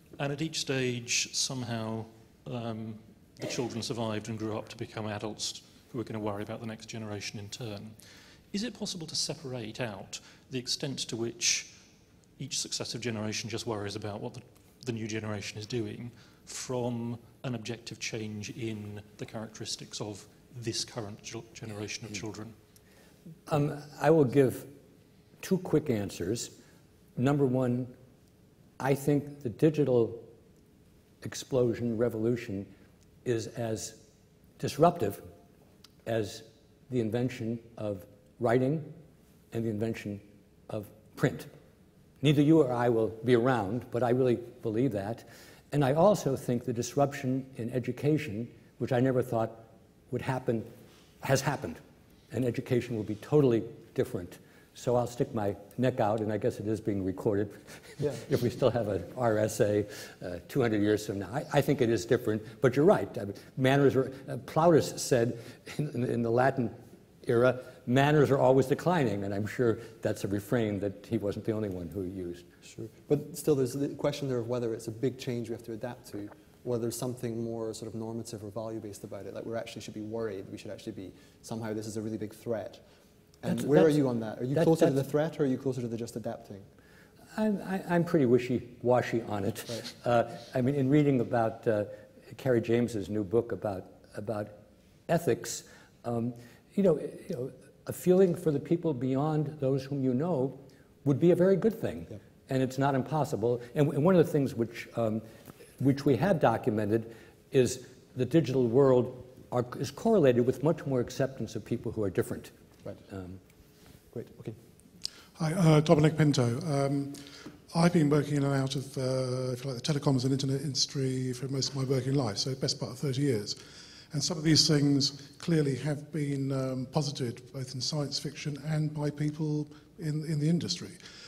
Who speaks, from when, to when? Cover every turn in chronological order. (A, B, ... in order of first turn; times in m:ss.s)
0:00.2-0:11.8 A
0:12.4-0:22.5 A
0:23.5-0:24.7 B
0:25.4-0:26.5 B
0:27.2-0:27.9 B
0:28.8-0:30.3 B
0:31.2-0:32.7 B
0:33.2-0:34.0 B
0:34.6-0:35.2 B
0:36.1-0:38.9 B
0:39.5-0:41.5 B
0:42.2-1:12.5 B
1:12.6-1:22.8 C
1:23.4-1:26.7 C
1:23.5-1:24.0 B
1:24.5-1:25.0 B
1:27.3-1:45.2 B
1:45.8-1:52.5 B
1:53.1-1:53.4 B
1:54.1-1:54.6 C
1:55.4-2:03.6 D
2:04.1-2:11.0 D